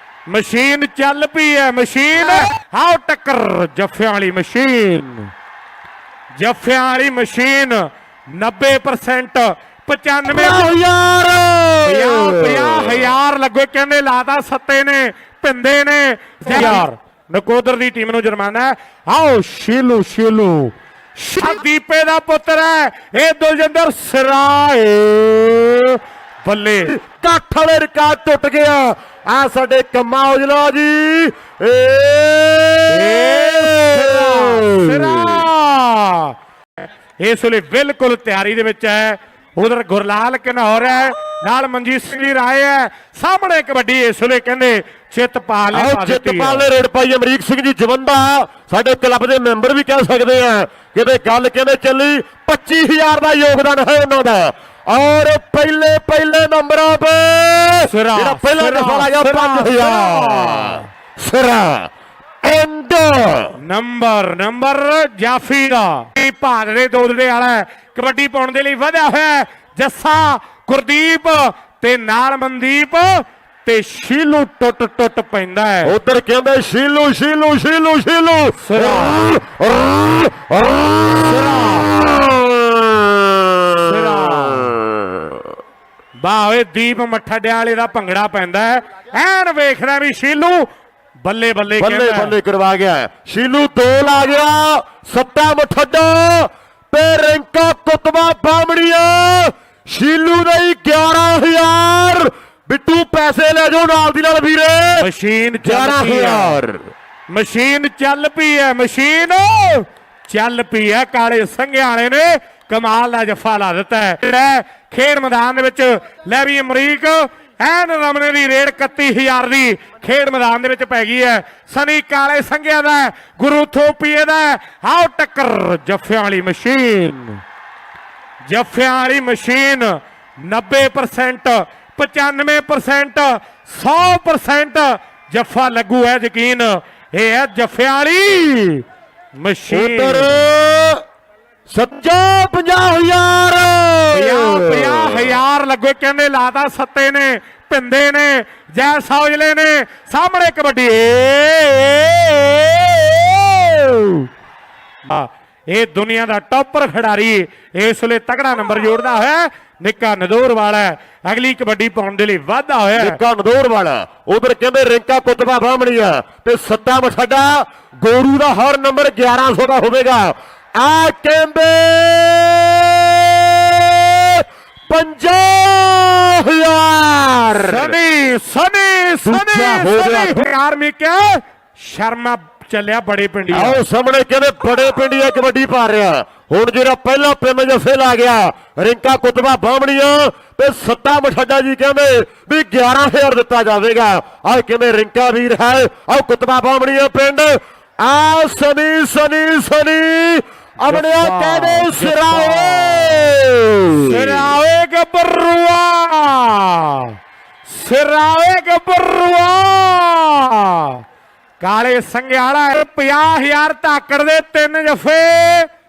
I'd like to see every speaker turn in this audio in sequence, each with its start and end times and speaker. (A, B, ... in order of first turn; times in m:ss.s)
0:00.3-0:05.3 A
0:06.4-0:10.7 A
0:10.3-0:13.1 B
0:11.9-0:26.9 A
0:16.5-0:16.9 B
0:26.8-0:35.4 B
0:32.9-0:46.7 A
0:45.7-1:01.9 B
0:57.9-1:00.9 A
1:02.4-1:03.6 B
1:03.6-1:15.9 A
1:15.8-1:25.4 B
1:18.6-1:19.2 A
1:21.2-1:21.9 A
1:23.8-1:24.8 A
1:26.2-1:30.7 A
1:31.2-1:32.3 A
1:31.8-1:45.1 B
1:45.0-1:46.6 A
1:45.6-1:46.8 B
1:47.3-2:07.4 A
2:08.5-2:20.4 A
2:19.7-2:21.0 B
2:21.7-2:25.4 B
2:24.1-2:34.3 A
2:35.1-2:43.2 A
2:43.0-2:58.0 B
2:57.6-3:03.8 A
2:59.2-3:00.4 B
3:03.5-3:24.5 B
3:20.9-3:23.3 A
3:23.9-3:31.0 A
3:31.6-3:35.7 A